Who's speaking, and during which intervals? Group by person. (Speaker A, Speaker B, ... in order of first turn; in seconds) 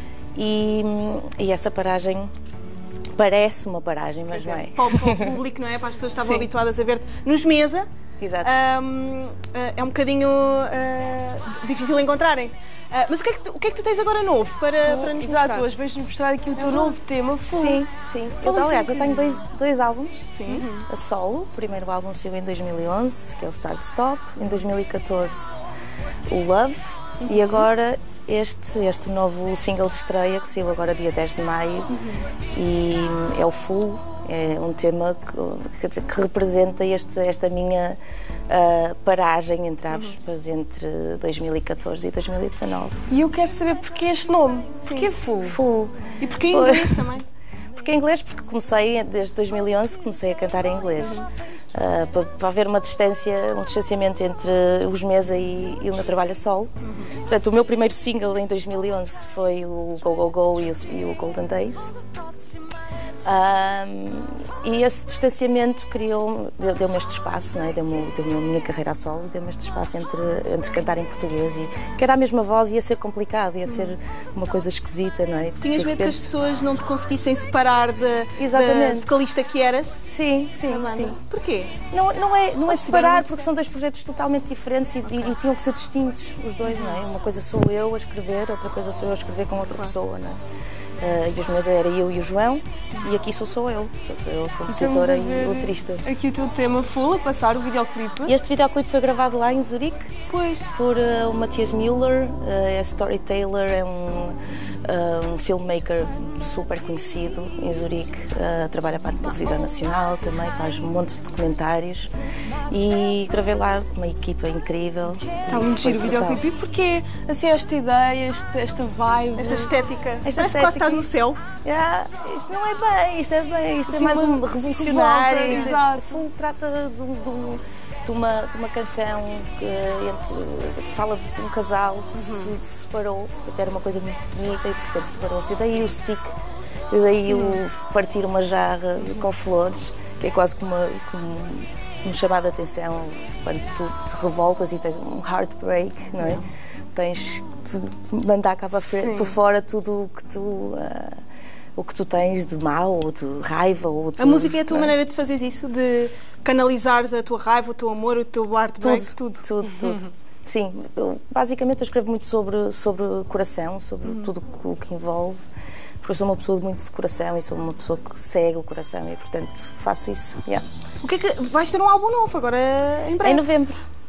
Speaker A: 0.3-2.3, 3.2-5.3, 8.2-8.5, 17.4-25.6, 26.3-32.0, 32.5-43.1, 45.4-47.1, 47.8-62.0, 63.2-76.3, 78.4-79.1, 80.0-81.2, 81.9-90.4, 91.0-96.1, 98.3-100.2, 100.7-112.1, 112.7-116.4, 120.2-136.4, 136.9-151.2, 151.8-155.0, 158.8-165.4, 166.0-170.7, 173.2-173.8
Speaker B: 4.3-7.9, 8.4-15.7, 16.6-17.0, 20.4-20.9, 27.2-27.7, 31.9-32.2, 39.9-40.2, 44.9-45.1, 46.2-47.3, 51.0-51.3, 56.8-57.1, 73.7-74.0, 75.6-80.0, 80.7-81.8, 82.7-83.4, 85.0-85.4, 86.7-87.0, 89.7-90.0, 100.3-100.7, 119.4-121.4, 125.5-125.8, 132.2-132.6, 137.3-137.6, 146.2-146.4, 154.2-160.1, 164.1-164.3, 171.0-173.4
Speaker C: 14.8-17.9, 18.4-19.5, 43.1-45.6, 94.7-98.3, 115.5-119.7, 123.9-126.2, 148.9-149.3